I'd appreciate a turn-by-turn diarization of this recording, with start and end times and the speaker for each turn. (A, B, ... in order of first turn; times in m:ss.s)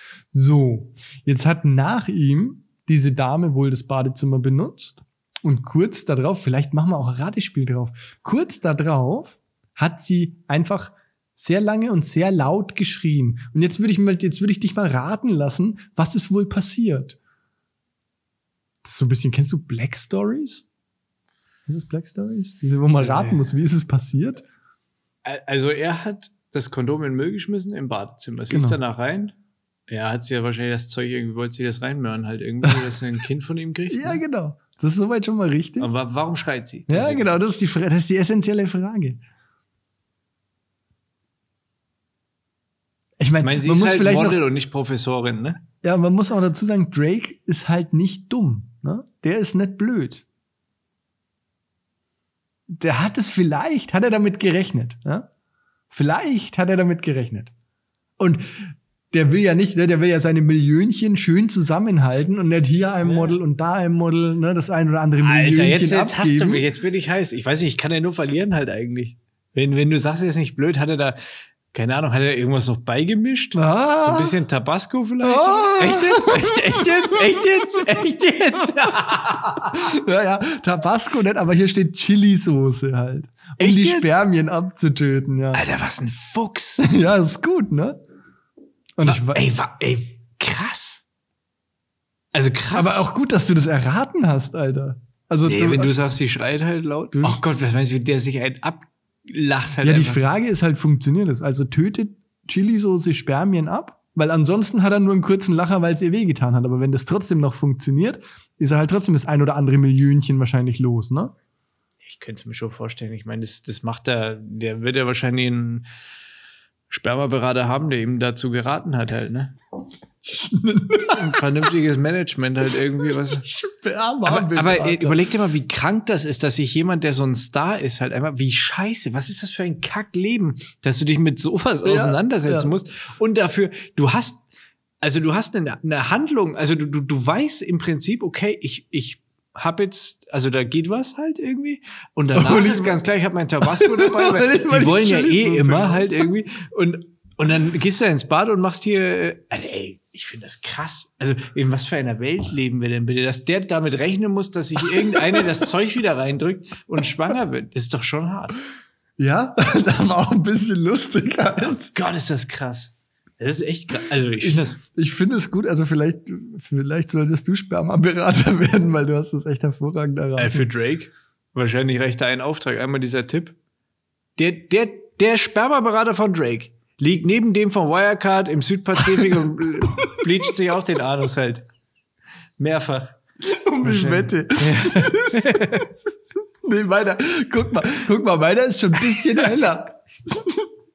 0:00.3-0:17.2 A
0:18.8-0:20.7 A
0:21.7-0:24.4 A
0:23.0-0:23.4 B
0:25.2-0:29.3 B
0:28.5-0:28.8 A
0:29.9-0:34.2 B
0:33.9-0:35.9 A
0:35.8-0:37.4 B
0:36.9-0:39.2 A
0:43.2-0:44.4 A
0:43.4-0:45.6 B
0:45.8-0:50.2 A
0:52.7-0:55.3 A
0:55.9-0:57.5 A
0:58.2-1:06.6 A
1:03.0-1:03.4 B
1:05.2-1:11.2 B
1:11.7-1:19.9 B
1:13.6-1:14.3 A
1:15.2-1:18.0 A
1:19.6-1:25.6 A
1:23.6-1:24.2 B
1:25.5-1:26.9 B
1:26.8-1:28.0 A
1:29.0-1:29.4 A
1:29.0-1:31.0 B
1:32.3-1:33.1 B
1:32.7-1:35.9 A
1:35.4-1:40.2 B
1:37.1-1:37.4 A
1:39.8-1:51.3 A
1:52.0-1:55.8 B
1:56.9-1:59.5 B
2:00.2-2:01.4 A
2:01.1-2:03.4 B
2:03.0-2:05.3 A
2:04.2-2:14.5 B
2:11.8-2:12.7 A
2:15.0-2:38.6 B
2:22.3-2:23.0 A
2:23.6-2:26.3 A
2:39.2-2:41.9 A
2:41.7-2:44.8 B
2:44.4-2:50.7 A
2:50.4-2:53.6 B
2:54.4-3:01.6 B
3:00.0-3:00.3 A
3:02.6-3:03.2 B
3:03.4-3:05.9 A
3:03.8-3:05.9 B
3:06.6-3:10.7 A